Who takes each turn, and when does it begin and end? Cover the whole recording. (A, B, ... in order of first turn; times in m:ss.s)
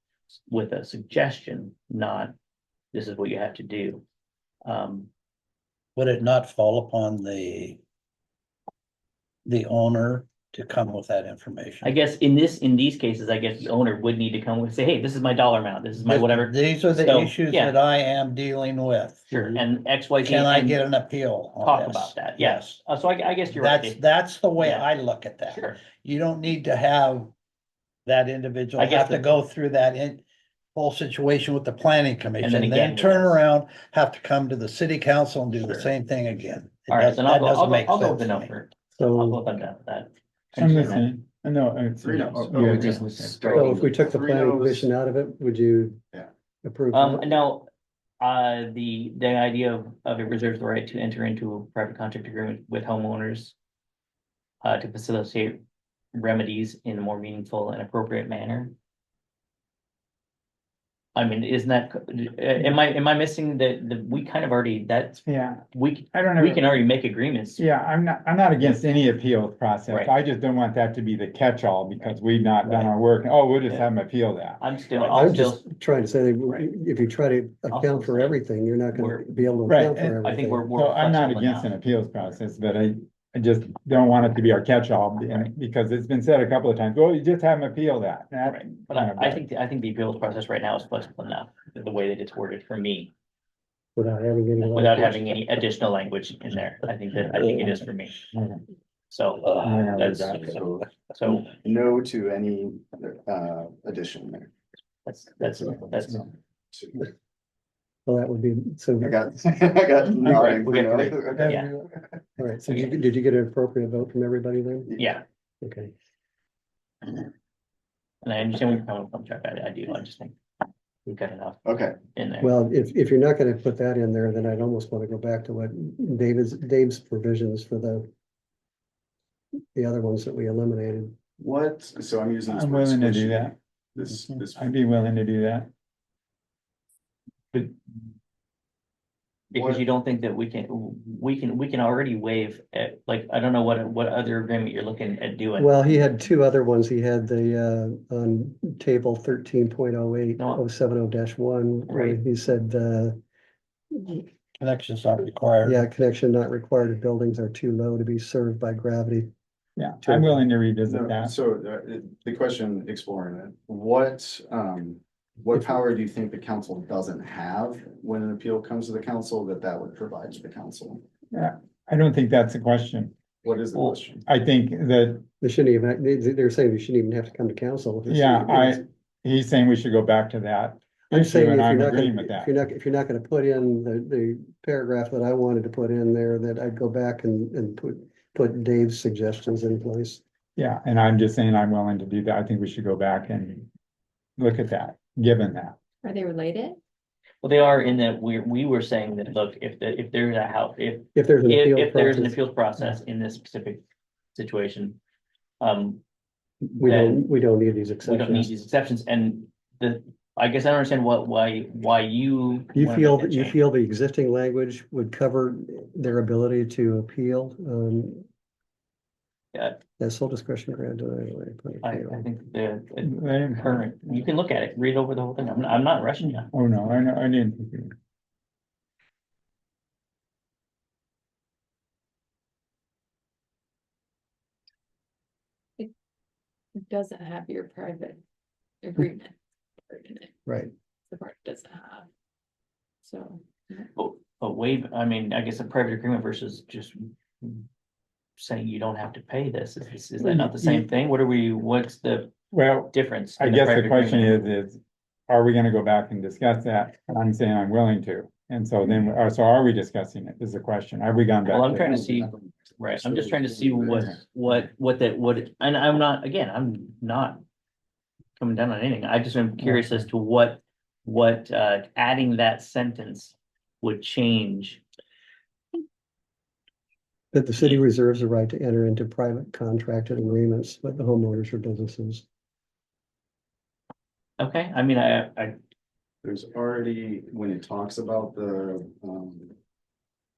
0:00.5-0:02.3 A
0:02.9-0:04.0 A
0:04.6-0:05.1 A
0:06.0-0:07.8 B
0:09.4-0:11.9 B
0:11.8-0:17.8 A
0:16.0-0:19.6 B
0:19.3-0:20.8 A
0:20.2-0:22.8 B
0:21.6-0:24.0 A
0:23.5-0:27.3 B
0:24.6-0:24.9 A
0:25.5-0:25.8 A
0:28.0-0:30.2 B
0:28.8-0:29.3 A
0:30.7-0:38.5 B
0:32.4-0:33.4 A
0:36.9-0:40.1 A
0:39.0-0:39.4 C
0:40.5-0:41.0 D
0:40.6-0:43.5 E
0:40.7-0:41.0 A
0:42.0-0:44.9 D
0:42.5-0:43.8 A
0:43.5-0:46.0 C
0:46.6-0:47.3 C
0:46.9-0:47.7 A
0:48.2-0:53.5 A
0:54.6-0:55.6 A
0:56.1-0:58.7 A
1:01.1-1:07.6 A
1:05.2-1:06.6 E
1:07.6-1:14.6 E
1:14.6-1:15.6 A
1:15.1-1:20.6 C
1:17.7-1:18.4 A
1:18.9-1:19.6 A
1:19.7-1:20.2 E
1:20.2-1:21.7 A
1:20.7-1:29.4 E
1:28.4-1:33.1 A
1:34.0-1:35.5 C
1:34.6-1:38.3 A
1:38.3-1:38.6 E
1:39.1-1:41.5 A
1:39.6-1:40.5 E
1:40.4-1:40.9 D
1:41.5-1:44.5 D
1:45.0-1:46.2 A
1:45.4-1:47.1 D
1:48.0-1:49.2 C
1:49.0-1:52.2 D
1:50.2-1:51.7 A
1:52.4-1:54.9 C
1:52.7-1:52.9 A
1:54.9-1:55.2 D
1:55.0-1:55.2 A
1:55.6-1:55.9 C
1:58.2-2:00.3 A
2:01.0-2:02.6 A
2:01.6-2:02.0 D
2:02.4-2:08.1 C
2:09.7-2:11.2 C
2:11.4-2:14.7 D
2:12.5-2:13.5 E
2:14.5-2:15.7 E
2:19.5-2:25.8 A
2:19.5-2:19.8 D
2:25.6-2:33.2 C
2:31.9-2:32.2 A
2:33.9-2:34.2 C
2:34.6-2:35.8 B
2:35.6-2:39.3 C
2:39.8-2:41.3 E
2:40.0-2:40.4 C
2:40.9-2:51.0 D
2:51.3-2:53.1 E
2:53.4-2:54.2 D
2:54.2-2:55.3 E
2:55.4-2:58.8 C
2:58.0-3:02.6 E
3:01.1-3:10.2 C
3:10.6-3:13.7 E
3:14.4-3:15.8 E
3:16.0-3:16.8 F
3:17.4-3:23.8 A
3:21.1-3:22.4 C
3:24.3-3:25.0 A
3:25.6-3:26.0 A
3:26.8-3:28.5 C
3:26.8-3:27.2 A
3:28.0-3:33.6 A
3:32.7-3:38.2 C
3:39.5-3:39.8 A
3:40.0-3:42.2 C
3:41.8-3:46.5 A
3:43.0-3:44.2 E
3:46.3-3:47.9 E
3:56.8-3:58.2 F
3:58.8-3:59.3 F
3:59.9-4:00.3 F
4:01.1-4:02.1 F
4:03.0-4:03.9 F
4:03.9-4:07.6 A
4:08.4-4:12.3 A
4:12.5-4:22.0 E
4:12.9-4:14.4 A
4:21.4-4:27.4 A
4:21.7-4:24.2 D
4:28.4-4:34.8 A
4:37.3-4:42.2 C
4:44.4-4:45.6 A
4:46.2-4:49.5 D